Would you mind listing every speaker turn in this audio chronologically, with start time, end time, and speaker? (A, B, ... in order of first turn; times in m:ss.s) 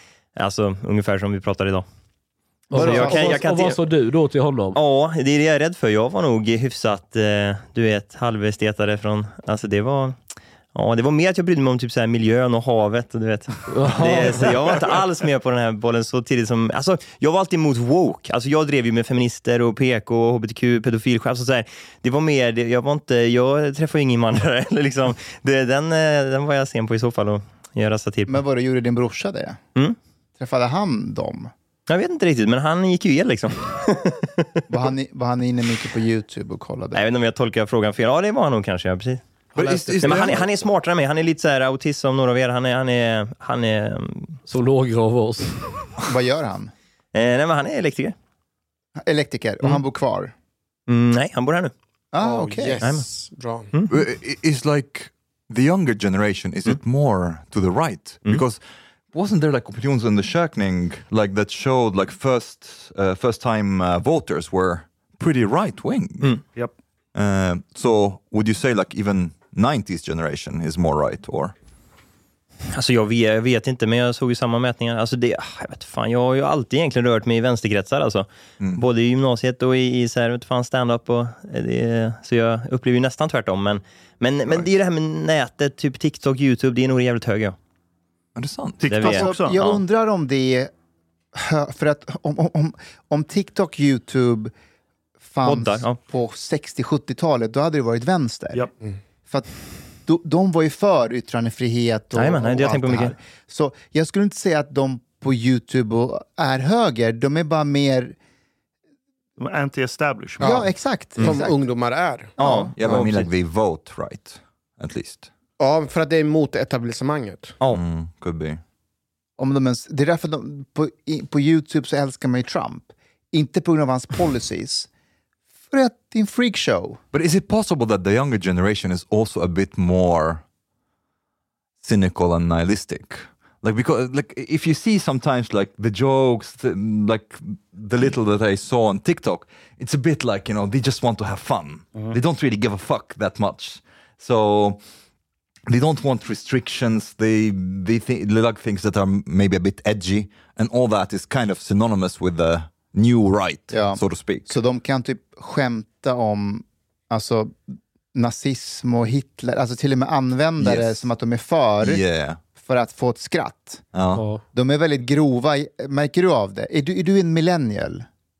0:00.4-0:01.8 A
0:02.7-0:04.8 B
0:02.7-0:03.4 C
0:02.8-0:03.8 A
0:04.8-0:10.2 A
0:10.8-0:28.4 A
0:13.7-0:14.5 B
0:28.3-0:29.6 C
0:30.4-0:31.5 C
0:31.9-0:34.5 A
0:34.7-0:37.0 C
0:36.9-0:44.4 A
0:39.6-0:40.6 D
0:44.5-0:45.5 B
0:46.1-0:46.7 C
0:47.1-0:48.2 A
0:49.0-0:50.3 C
0:50.9-0:51.7 A
0:52.1-0:52.8 C
0:52.2-0:53.7 E
0:53.9-0:58.6 D
0:59.1-1:06.4 D
1:07.2-1:11.5 D
1:12.7-1:27.6 A
1:28.4-1:28.9 D
1:28.8-1:29.6 F
1:28.9-1:29.8 A
1:29.0-1:30.7 C
1:31.3-1:34.5 C
1:35.2-1:38.7 C
1:35.4-1:36.0 A
1:40.1-1:48.2 C
1:42.2-1:43.1 A
1:49.4-1:50.5 F
1:50.4-1:51.5 C
1:50.4-1:50.7 E
1:51.2-1:53.2 E
1:52.4-1:52.7 A
1:52.4-1:52.7 C
1:52.7-1:55.3 D
1:55.6-1:57.6 E
1:57.6-1:58.6 D
1:59.4-2:04.9 C
2:05.7-2:07.0 C
2:07.1-2:10.4 D
2:11.8-2:24.8 D
2:25.7-2:34.5 D
2:33.7-2:42.0 C
2:40.6-2:41.0 D
2:41.8-2:42.4 D
2:42.6-2:43.8 C
2:43.9-2:44.3 D
2:44.2-2:44.4 B
2:44.5-2:48.1 C